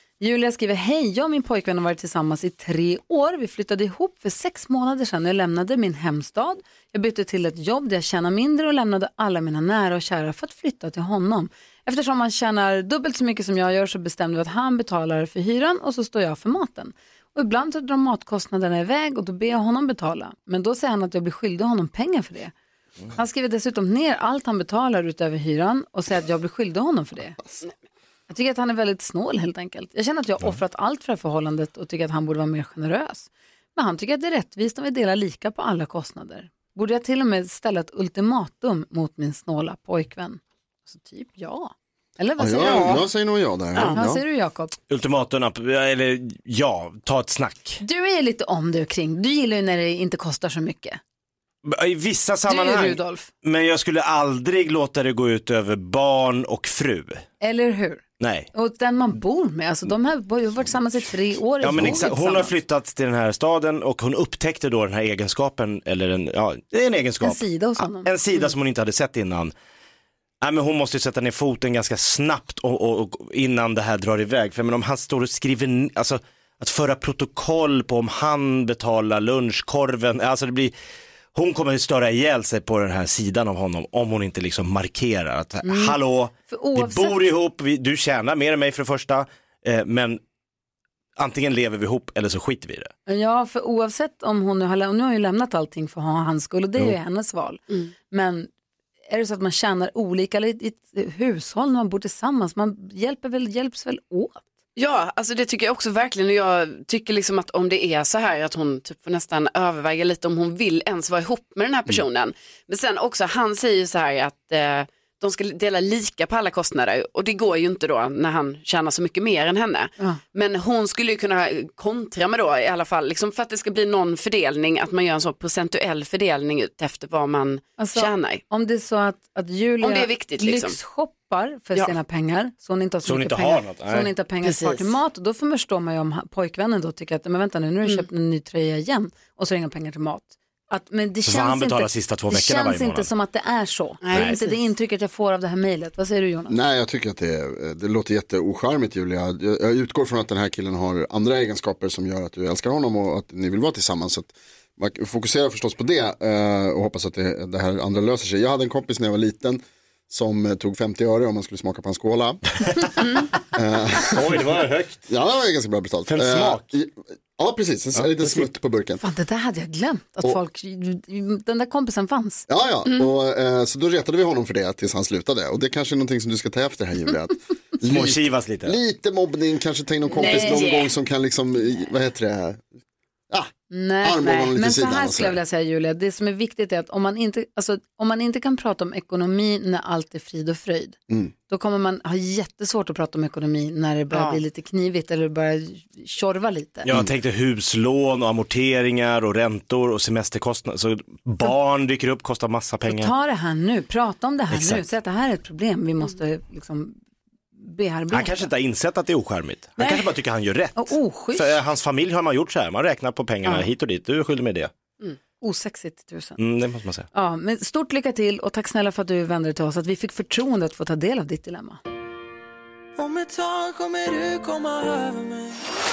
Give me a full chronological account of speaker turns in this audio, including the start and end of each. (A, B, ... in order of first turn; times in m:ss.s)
0:00.2-0:22.5 A
0:23.1-0:27.4 A
0:28.3-0:43.0 A
0:42.4-0:44.2 B
0:43.9-0:44.7 A
0:44.9-0:47.8 C
0:47.8-0:51.0 A
0:51.6-0:57.2 C
0:52.5-0:53.3 A
0:57.4-0:58.0 A
0:58.2-0:58.5 C
0:58.5-1:02.5 A
1:01.6-1:09.5 C
1:07.2-1:08.1 A
1:10.4-1:20.7 C
1:21.3-1:30.2 C
1:25.6-1:27.3 A
1:31.2-1:32.9 C
1:33.1-1:38.5 A
1:39.1-1:44.4 A
1:44.8-2:08.4 D
2:07.8-2:26.6 A
2:09.8-2:10.8 D
2:13.0-2:14.1 C
2:14.4-2:14.9 D
2:21.2-2:23.1 C
2:24.0-2:24.5 D
2:24.1-2:24.4 C
2:26.5-2:42.7 B
2:42.6-2:42.9 C
2:43.5-2:44.5 B
2:44.1-2:45.0 C
2:45.1-2:49.0 B
2:46.1-2:46.6 C
2:47.9-2:48.4 C
2:49.0-2:52.4 A
2:52.5-3:02.7 B
2:57.8-2:58.8 C
3:00.1-3:00.7 A
3:00.2-3:00.9 D
3:03.3-3:05.4 B
3:03.7-3:11.0 A
3:11.1-3:11.3 B
3:11.5-3:16.9 A
3:14.1-3:14.4 D
3:16.8-3:23.1 C
3:22.8-3:27.0 A
3:24.5-3:24.8 C
3:27.6-3:28.5 A
3:28.1-3:34.7 C
3:29.8-3:30.0 A
3:30.8-3:31.6 A
3:35.4-3:36.4 A
3:36.4-3:37.1 C
3:37.1-3:41.8 A
3:43.0-3:45.7 E